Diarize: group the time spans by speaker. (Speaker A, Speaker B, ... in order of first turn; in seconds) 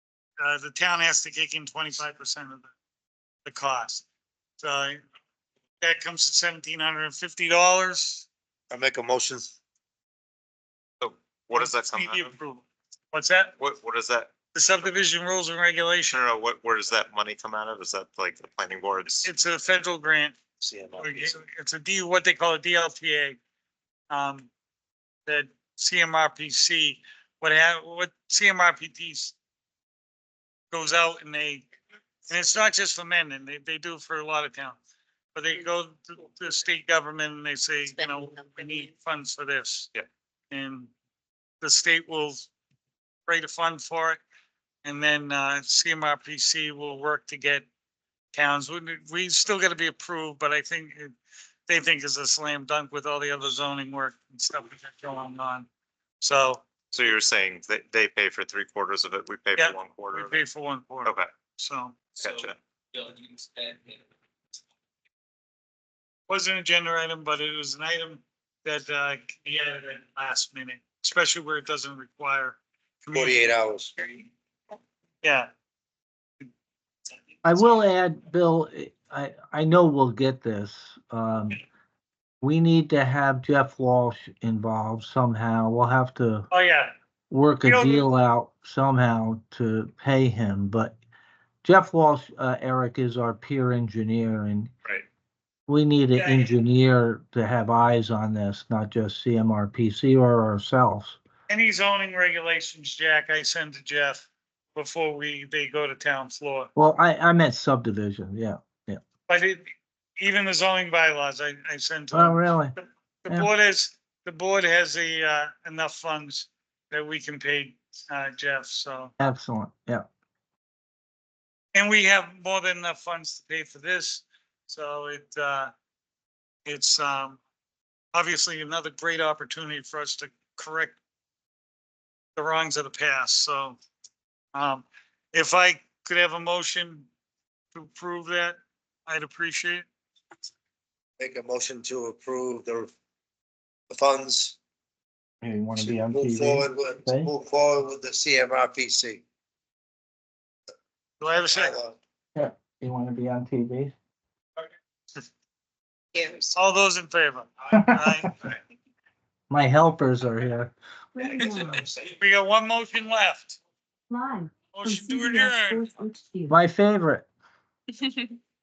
Speaker A: 0.4-2.7, 3.5-4.0, 4.6-5.0, 5.8-8.3, 11.6-13.6, 14.5-16.2, 19.2-20.4, 21.0-23.4, 24.1-24.5, 25.3-29.4, 30.7-31.7, 32.3-34.8, 35.3-39.9, 40.5-40.9, 41.6-42.5, 43.3-44.2, 44.8-47.7, 48.3-51.2, 51.7-55.7, 56.2-56.6, 59.6-62.2, 66.3-73.5, 75.2-75.5, 86.5-86.9, 87.6-88.1, 96.2-96.5, 101.5-106.7, 109.3-112.4, 113.2-119.1, 121.8-125.7, 126.7-127.4, 128.1-131.0, 132.4-133.8, 134.5-137.1, 137.7-139.9, 151.2-151.8, 156.5-158.3, 162.1-163.6, 164.7-165.9
Speaker B: 8.7-9.6, 20.6-21.4, 73.1-73.9, 141.2-142.9, 143.9-144.6, 145.8-149.2, 151.5-152.0
Speaker C: 11.0-12.3, 13.6-14.3, 16.1-19.3, 56.9-60.4, 61.0-61.3, 62.2-62.6
Speaker D: 77.4-81.6, 82.4-86.5, 87.3-91.0, 91.6-94.7, 95.7-101.2, 106.8-109.0, 112.1-112.8, 119.2-120.1, 145.4-147.3, 152.3-153.9, 157.7-158.3, 159.5-160.7, 166.5-167.3
Speaker E: 161.2-161.9, 164.1-166.6